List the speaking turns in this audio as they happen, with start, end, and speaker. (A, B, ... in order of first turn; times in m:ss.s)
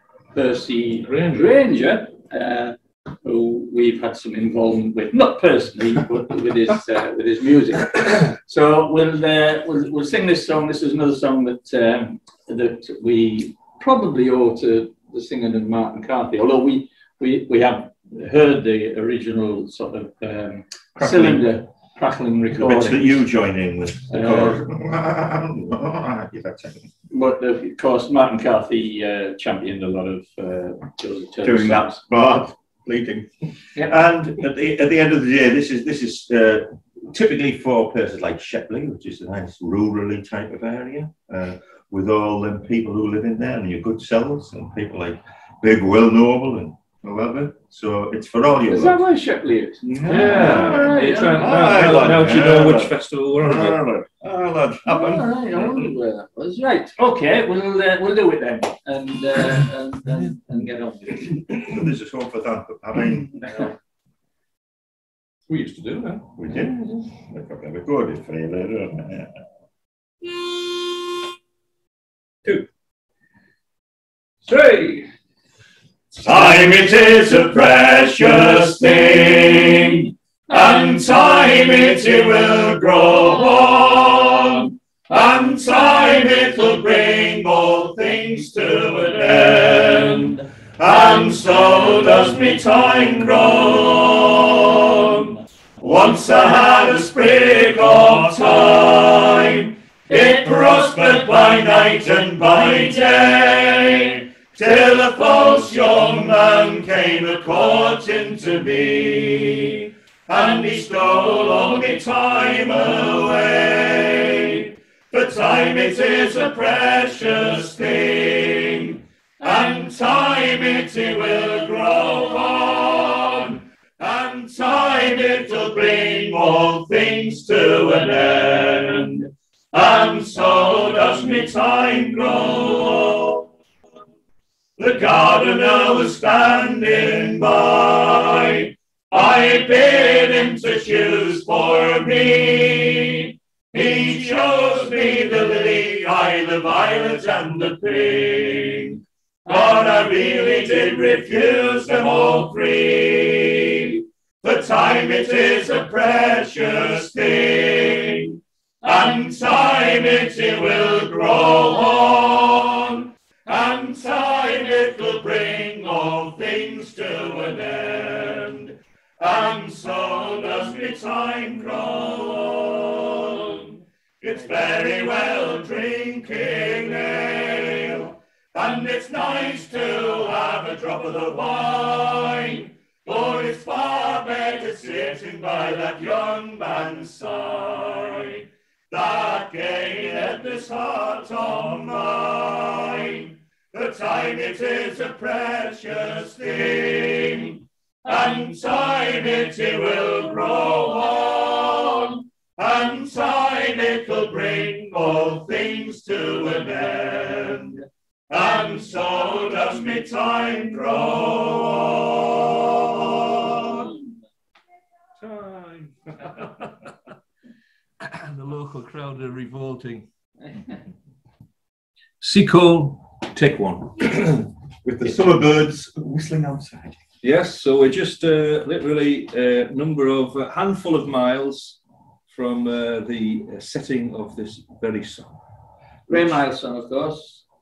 0:00.3-0:23.2 A
0:01.0-0:01.5 B
0:21.1-0:21.4 C
0:22.5-0:26.9 C
0:24.1-0:24.6 A
0:27.1-0:32.0 A
0:31.4-0:49.0 C
0:48.7-0:51.7 A
0:49.8-0:55.8 C
0:50.0-0:53.9 B
0:54.9-1:01.4 A
1:01.6-1:03.5 C
1:03.4-1:03.7 A
1:05.5-1:07.1 B
1:06.4-1:09.3 C
1:14.4-1:15.1 B
1:16.2-2:13.5 D
2:14.8-3:33.8 D
3:35.2-3:36.5 B
3:38.0-3:40.1 B
3:42.2-3:44.4 B
3:44.8-3:47.0 C
3:47.2-3:55.4 B
3:56.1-3:57.4 A